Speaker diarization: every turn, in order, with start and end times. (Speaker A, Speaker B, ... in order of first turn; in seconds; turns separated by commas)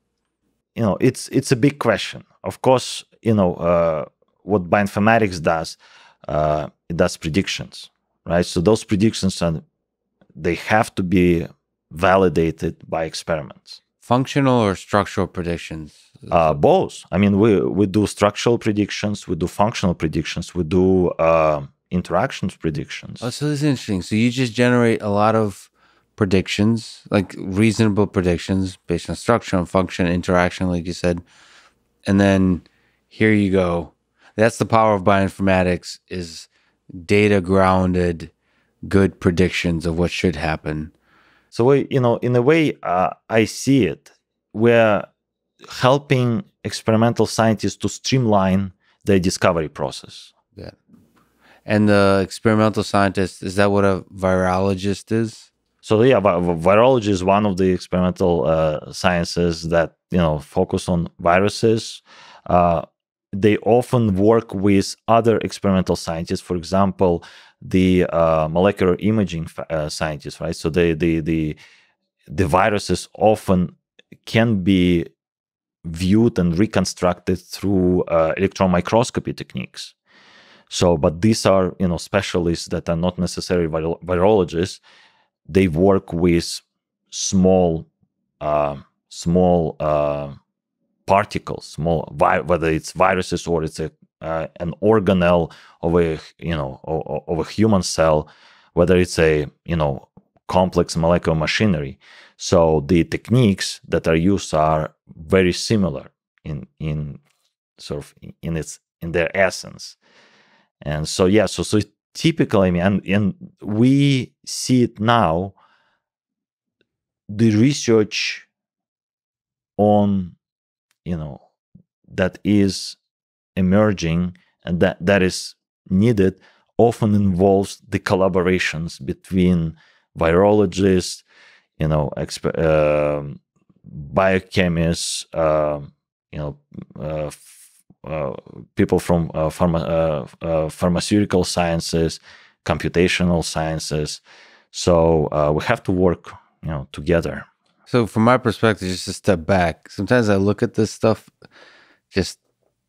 Speaker A: 0.8-9.6, Speaker A: 10.4-13.8, Speaker B: 14.0-16.6, Speaker A: 16.3-23.2, Speaker B: 23.2-31.2, Speaker B: 32.0-38.3, Speaker B: 38.9-40.9, Speaker A: 41.5-45.1, Speaker A: 45.6-50.3, Speaker B: 51.6-55.5, Speaker A: 55.8-71.6, Speaker A: 72.3-73.7, Speaker A: 74.2-75.1, Speaker A: 75.8-79.9, Speaker A: 80.7-84.8, Speaker A: 85.5-87.9, Speaker A: 88.4-90.3, Speaker A: 91.1-107.2, Speaker A: 107.8-110.0, Speaker A: 110.8-115.5, Speaker A: 117.3-118.5, Speaker A: 119.8-120.3, Speaker A: 121.0-121.4, Speaker A: 122.1-123.0, Speaker A: 123.5-131.2, Speaker A: 131.8-137.5, Speaker A: 138.0-144.2, Speaker A: 144.7-147.4, Speaker B: 147.9-151.3, Speaker B: 152.1-152.4